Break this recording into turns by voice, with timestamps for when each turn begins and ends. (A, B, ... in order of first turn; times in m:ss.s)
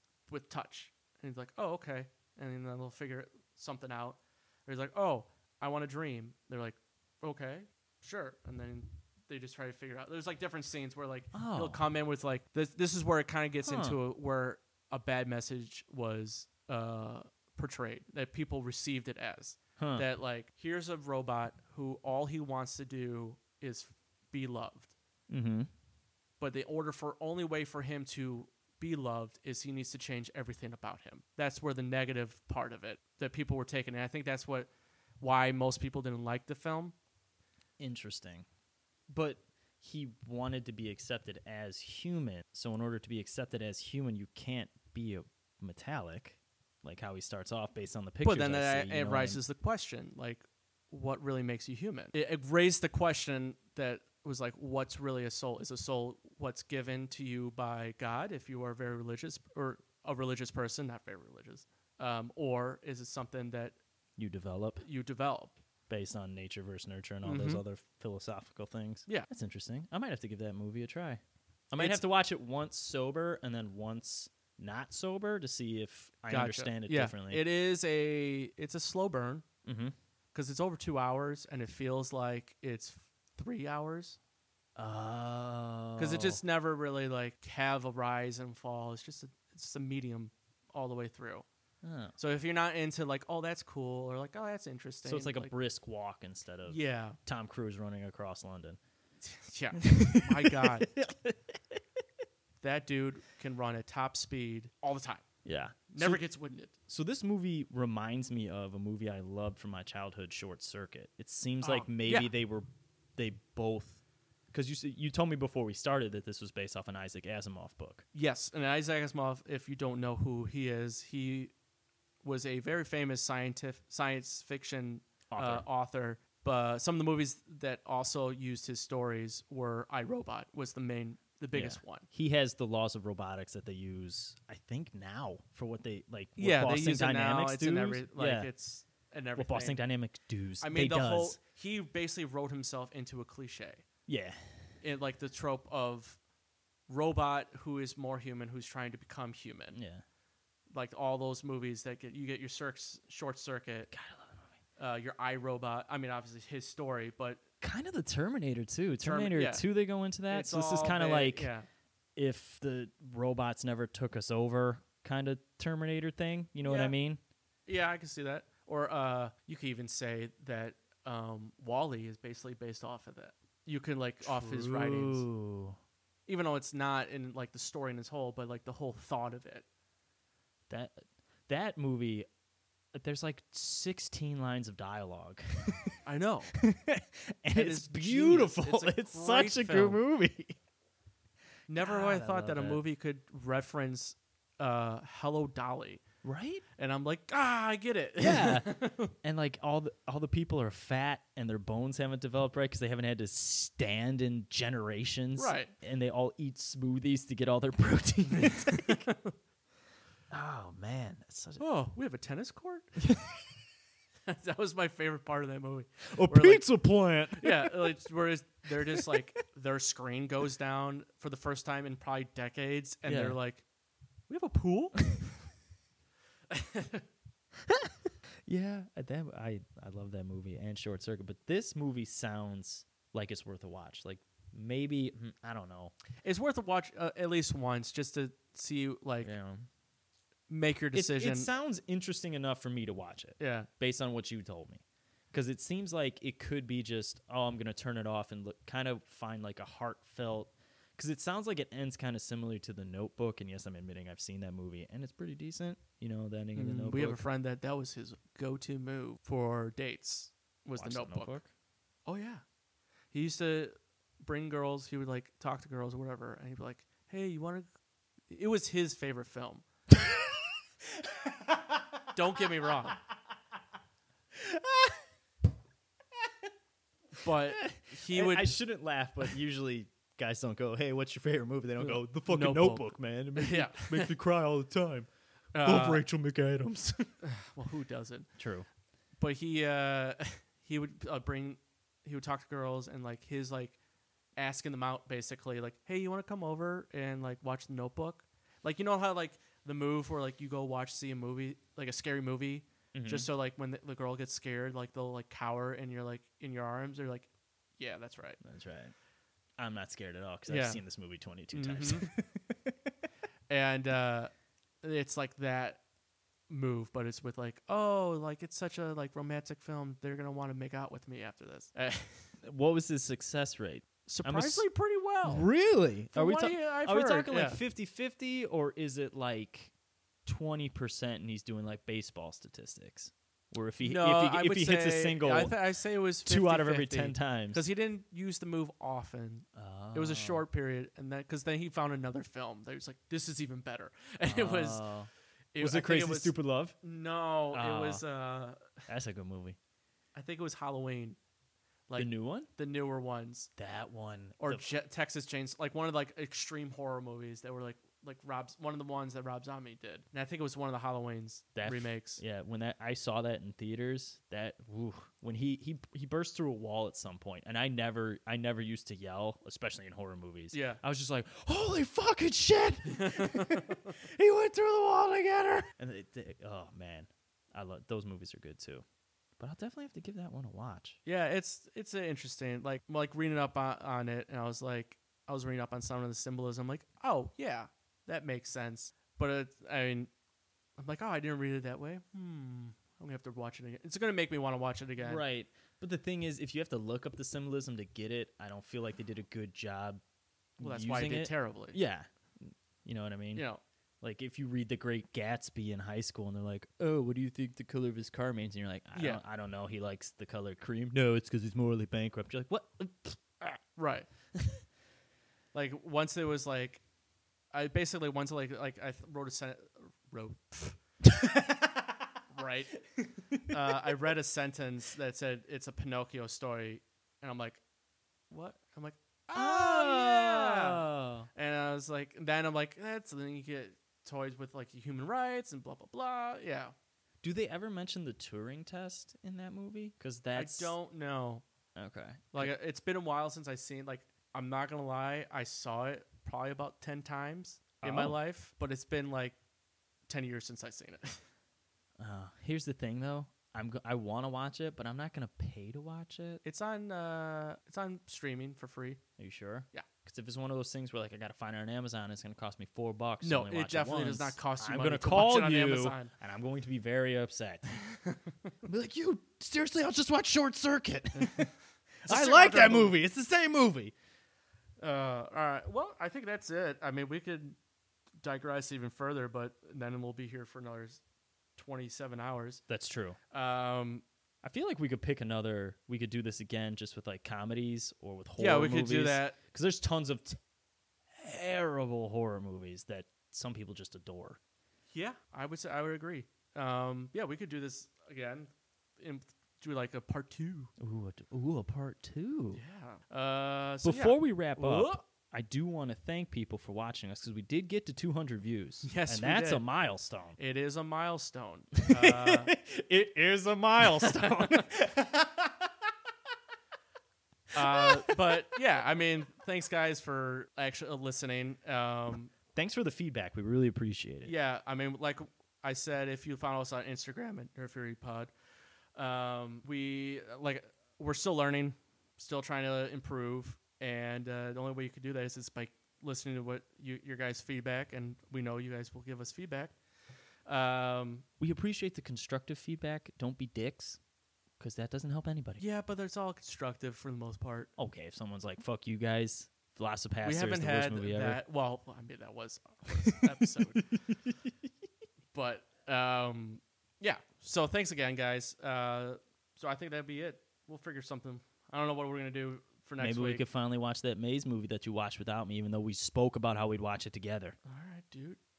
0:00.3-0:24.9 A
0:11.3-0:11.8 B
0:13.6-0:14.0 B
0:19.8-0:20.1 B
0:25.3-0:25.7 B
0:26.4-0:37.0 A
0:37.8-0:38.5 B
0:39.1-0:49.4 B
0:48.2-1:03.8 A
1:04.2-1:04.8 B
1:04.8-1:05.6 A
1:05.9-1:17.4 B
1:07.2-1:07.6 A
1:16.3-1:19.4 A
1:19.6-1:19.9 B
1:20.3-1:24.2 A
1:24.8-1:26.4 B
1:26.0-1:31.4 A
1:31.8-1:32.2 B
1:32.2-1:35.5 A
1:35.0-1:38.8 B
1:36.7-1:37.2 A
1:39.2-1:40.9 A
1:39.8-1:41.8 B
1:42.6-1:45.2 A
1:45.4-1:46.2 B
1:45.9-1:46.7 A
1:46.9-1:52.7 B
1:51.6-1:52.3 A
1:53.2-1:54.0 B
1:54.5-1:58.0 B
1:58.1-2:01.5 A
2:02.2-2:12.1 A
2:05.3-2:05.6 B
2:11.5-2:18.5 B
2:16.4-2:19.8 A
2:19.4-2:21.4 B
2:20.6-2:23.8 A
2:24.1-2:24.7 B
2:24.8-2:26.2 A
2:26.9-2:29.8 A
2:29.7-2:30.0 B
2:30.7-2:33.9 A
2:33.9-2:34.5 B
2:34.8-2:37.4 A
2:37.6-2:41.5 B
2:39.0-2:39.6 A
2:40.3-2:41.7 A
2:42.2-2:47.2 B
2:46.6-2:46.9 A
2:47.7-2:55.3 A
2:54.2-2:55.8 B
2:56.3-2:59.7 A
3:00.7-3:02.3 B
3:02.9-3:06.0 B
3:06.0-3:06.6 A
3:06.5-3:10.6 B
3:07.5-3:10.0 A
3:11.7-3:16.0 A
3:11.8-3:12.8 B
3:16.2-3:16.6 B
3:16.8-3:19.1 A
3:18.2-3:29.0 B
3:25.4-3:25.7 A
3:28.4-3:29.3 A
3:30.3-3:31.6 B
3:31.6-3:33.0 A
3:33.0-3:33.3 B
3:34.3-3:36.6 A
3:36.1-3:37.9 B
3:37.4-3:43.6 A
3:38.9-3:39.3 B
3:43.1-3:43.4 B
3:44.3-3:45.1 A
3:46.5-3:47.0 A
3:47.7-3:55.9 B
3:56.2-3:59.3 A
3:59.2-3:59.7 B
4:00.5-4:01.5 A
4:00.9-4:17.2 B
4:03.4-4:03.7 A
4:16.6-4:21.4 A
4:20.8-4:21.5 B
4:22.1-4:22.4 A
4:23.1-4:27.7 A
4:28.3-4:29.6 A
4:29.9-4:32.1 B
4:32.1-4:33.0 A
4:34.3-4:35.0 B
4:37.2-4:38.6 A
4:37.3-4:45.1 B
4:41.8-4:44.1 A
4:45.5-4:46.1 A
4:45.6-4:47.1 B
4:47.2-4:48.3 A
4:48.4-4:48.7 B
4:49.2-4:53.8 A
4:54.4-5:08.4 A
5:02.9-5:03.3 B
5:08.4-5:08.9 B
5:09.6-5:12.9 B
5:10.5-5:10.8 A
5:11.5-5:12.1 A
5:13.5-5:14.3 A
5:14.8-5:15.8 A
5:16.5-5:22.3 A
5:22.4-5:24.7 B
5:24.1-5:25.5 A
5:25.2-5:29.7 B
5:26.1-5:27.6 A
5:30.3-5:35.5 B
5:33.8-5:44.9 A
5:36.2-5:37.6 B
5:39.5-5:40.4 B
5:44.3-5:46.8 B
5:45.5-5:48.7 A
5:47.5-5:48.0 B
5:48.9-5:49.6 B
5:50.2-5:51.2 A
5:51.9-5:53.5 A
5:52.0-5:52.5 B
5:53.6-5:54.6 B
5:54.4-6:02.2 A
6:01.6-6:18.8 B
6:10.5-6:10.8 A
6:12.9-6:13.9 A
6:19.4-6:21.0 B
6:21.0-6:30.1 A
6:30.8-6:35.2 A
6:35.0-6:40.0 B
6:40.6-6:43.4 B
6:40.6-6:41.8 A
6:43.3-6:43.6 A
6:44.0-6:53.6 B
6:49.0-6:49.2 A
6:53.8-6:54.1 A
6:54.4-6:54.6 B
6:55.5-6:56.8 A
6:57.5-7:00.8 A
7:01.0-7:02.1 B
7:02.3-7:02.8 A
7:03.0-7:03.8 B
7:03.5-7:07.6 A
7:08.3-7:16.7 A
7:09.3-7:11.3 B
7:17.2-7:20.8 B
7:20.4-7:21.4 A
7:21.8-7:22.5 B
7:22.3-7:29.4 A
7:27.8-7:28.2 B
7:30.1-7:31.2 A
7:32.0-7:36.4 B
7:36.4-7:39.0 A
7:39.2-7:47.8 B
7:43.2-7:46.1 A
7:48.0-7:48.3 A
7:48.6-7:51.5 B
7:51.2-7:51.5 A
7:52.0-7:53.9 B
7:52.1-7:53.0 A
7:54.8-7:57.6 A
7:58.2-8:01.0 A
8:01.6-8:02.6 A
8:02.7-8:03.2 B
8:03.3-8:04.0 A
8:04.4-8:10.4 B
8:08.4-8:09.4 A
8:11.2-8:14.4 B
8:14.9-8:20.7 A
8:20.8-8:22.6 B
8:22.6-8:25.0 A
8:23.8-8:30.4 B
8:28.8-8:29.6 A
8:30.4-8:32.5 A
8:31.9-8:35.9 B
8:33.8-8:34.6 A
8:37.5-8:42.3 A
8:37.7-8:38.2 B
8:42.6-8:44.3 B
8:44.2-8:48.3 A
8:49.0-8:59.8 A
9:00.5-9:01.2 A
9:01.4-9:04.0 B
9:04.6-9:05.6 B
9:05.6-9:07.7 A
9:07.8-9:11.4 B
9:10.2-9:13.9 A
9:14.1-9:14.5 B
9:15.3-9:23.4 A
9:23.0-9:27.6 B
9:27.6-9:28.4 A